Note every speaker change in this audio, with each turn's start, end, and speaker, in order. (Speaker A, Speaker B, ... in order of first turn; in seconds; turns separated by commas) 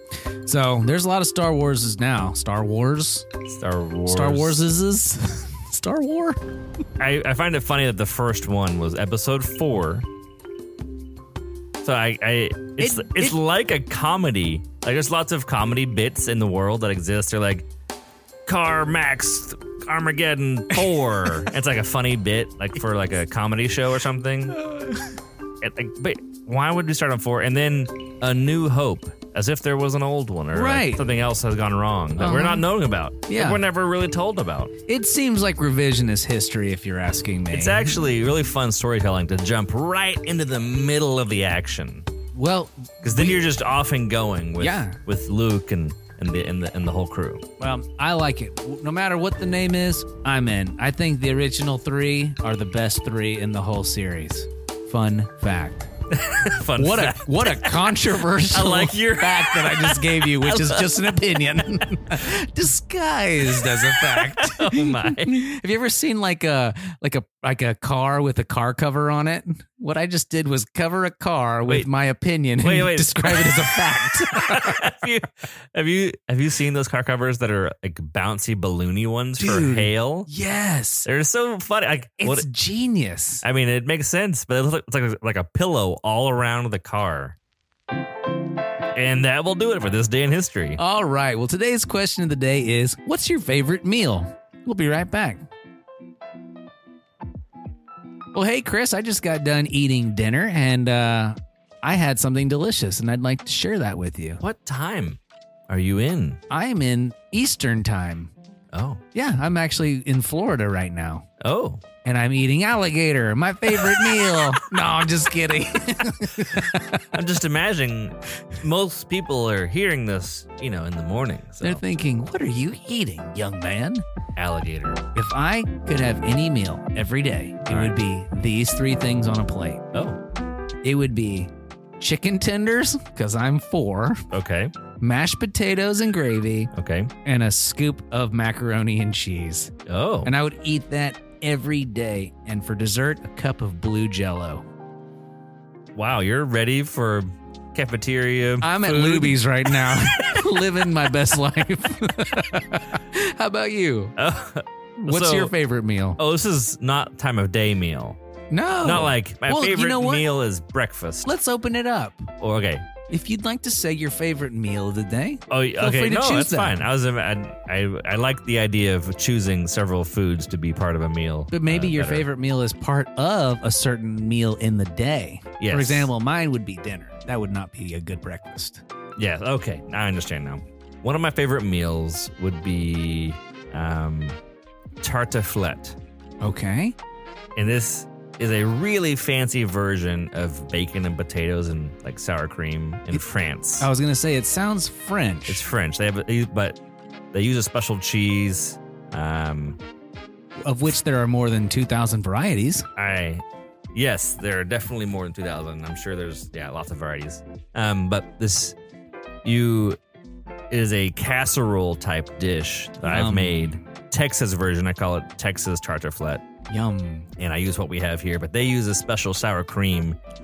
Speaker A: 0.4-3.3, Speaker B: 3.5-4.6, Speaker A: 4.0-6.4, Speaker B: 7.0-10.1, Speaker B: 11.8-17.7, Speaker A: 12.8-13.4, Speaker B: 18.4-24.6, Speaker A: 24.6-25.1, Speaker B: 25.6-34.7, Speaker A: 30.5-31.0, Speaker A: 32.2-32.7, Speaker A: 33.3-33.6, Speaker A: 34.9-37.9, Speaker B: 37.5-42.1, Speaker A: 42.3-43.4, Speaker B: 43.0-47.4, Speaker A: 44.6-45.0, Speaker A: 47.6-55.9, Speaker B: 56.1-61.2, Speaker A: 56.8-74.8, Speaker B: 63.6-65.4, Speaker B: 72.6-80.3, Speaker A: 79.4-81.1, Speaker B: 81.0-82.5, Speaker A: 82.2-83.4, Speaker B: 83.4-87.3, Speaker B: 88.9-90.8, Speaker A: 90.8-95.4, Speaker A: 98.3-104.4, Speaker B: 104.4-106.4, Speaker A: 106.5-108.3, Speaker B: 108.7-109.0, Speaker A: 109.1-111.3, Speaker B: 111.4-111.8, Speaker A: 112.0-117.0, Speaker B: 114.2-114.5, Speaker B: 117.1-121.8, Speaker A: 121.6-124.0, Speaker B: 124.3-125.0, Speaker A: 125.1-129.8, Speaker B: 127.7-128.0, Speaker B: 129.9-130.2, Speaker A: 130.8-134.2, Speaker B: 134.3-134.7, Speaker A: 135.0-136.7, Speaker B: 136.7-137.1, Speaker A: 137.2-139.7, Speaker B: 139.9-140.3, Speaker A: 140.2-144.6, Speaker B: 145.9-150.7, Speaker A: 148.6-154.1, Speaker B: 154.2-155.5, Speaker A: 155.0-156.2, Speaker B: 156.2-158.2, Speaker A: 158.5-160.3, Speaker B: 158.8-161.3, Speaker A: 161.2-162.3, Speaker B: 162.4-162.8, Speaker A: 163.1-166.8, Speaker B: 165.5-172.3, Speaker A: 171.5-178.8, Speaker B: 175.6-176.1, Speaker B: 179.2-184.4, Speaker B: 185.0-186.0, Speaker A: 186.4-186.9, Speaker B: 187.6-193.9, Speaker A: 193.8-195.6, Speaker B: 195.5-196.8, Speaker B: 197.3-199.8, Speaker A: 200.6-202.9, Speaker B: 202.9-208.8, Speaker B: 209.4-210.0, Speaker B: 210.7-216.4, Speaker A: 213.0-213.8, Speaker A: 216.7-217.3, Speaker B: 217.4-220.2